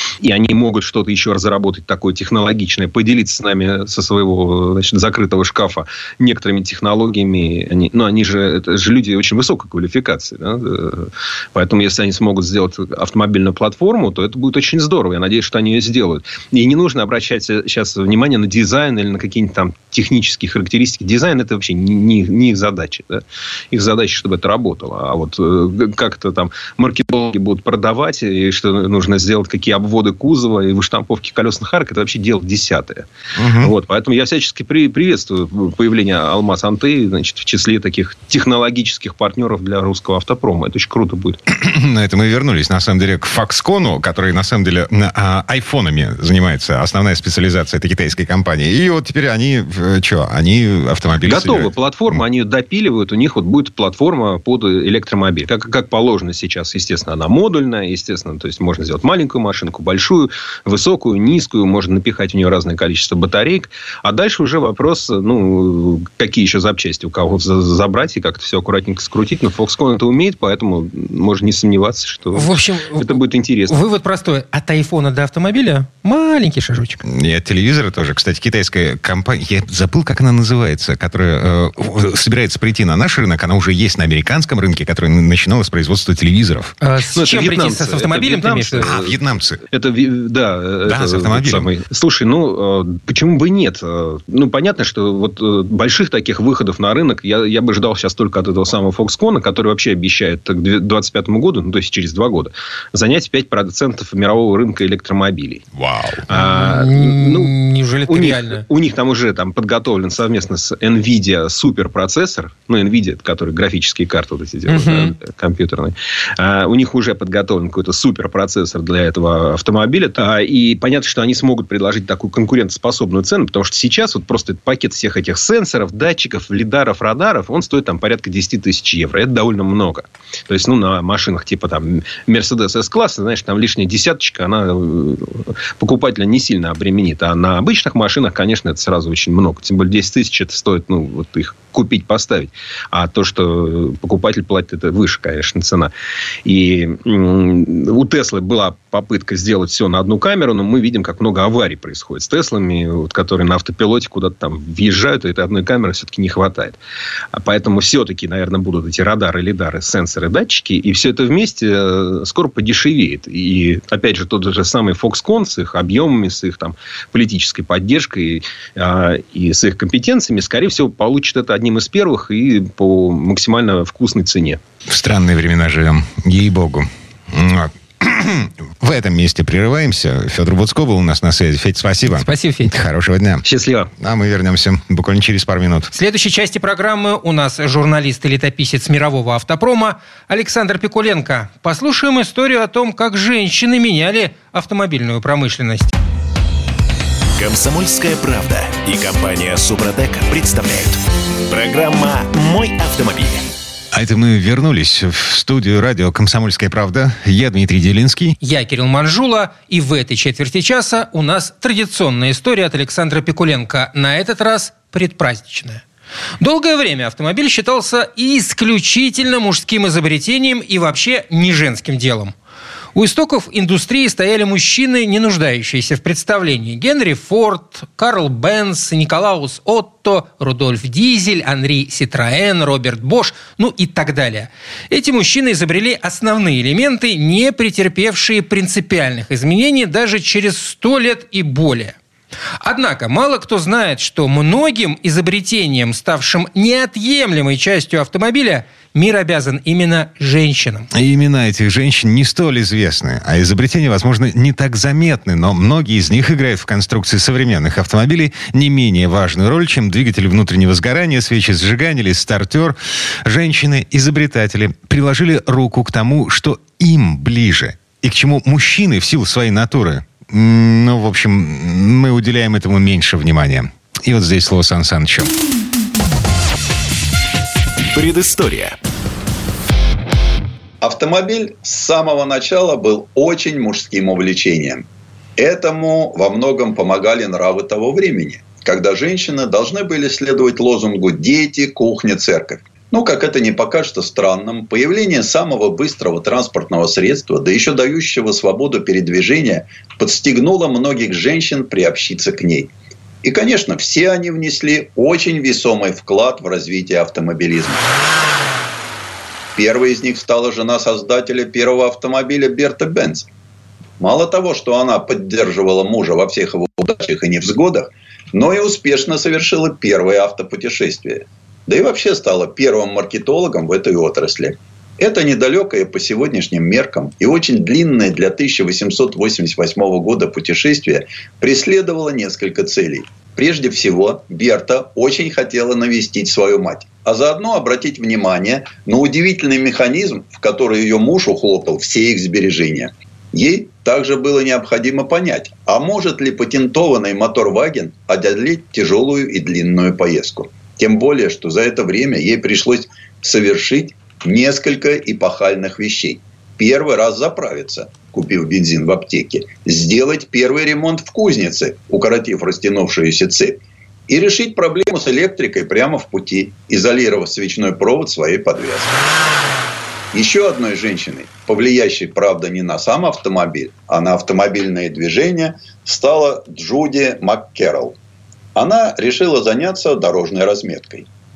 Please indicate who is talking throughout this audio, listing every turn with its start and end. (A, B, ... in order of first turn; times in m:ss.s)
0:00.2-0:41.4 A
0:33.4-0:33.7 B
0:41.5-0:52.2 B
0:51.2-1:13.8 A
1:12.3-1:17.0 C
1:17.0-1:26.8 B
1:26.8-1:28.9 C
1:27.1-1:29.2 A
1:28.8-1:29.6 B
1:29.7-1:45.6 A
1:30.9-1:31.7 B
1:45.8-1:46.2 B
1:46.3-1:47.6 A
1:46.3-1:48.7 C
1:48.1-2:25.9 A
1:54.7-1:55.1 C
2:26.4-2:36.8 A
2:37.3-2:54.6 A
2:54.9-3:03.4 B
3:02.1-3:02.7 C
3:03.4-3:03.9 A
3:04.0-3:05.9 B
3:05.9-3:15.9 C
3:17.4-3:23.5 D
3:23.9-3:28.4 B
3:28.4-3:35.8 C
3:36.4-3:42.3 C
3:42.9-4:02.0 C
4:02.6-4:10.9 C
4:10.9-4:35.3 B
4:37.9-4:38.8 D
4:40.8-4:44.9 E
4:45.4-5:02.7 E
5:03.2-5:07.9 E
5:09.6-5:13.3 E
5:14.0-6:09.0 E
6:10.1-6:18.0 E
6:18.6-6:21.1 E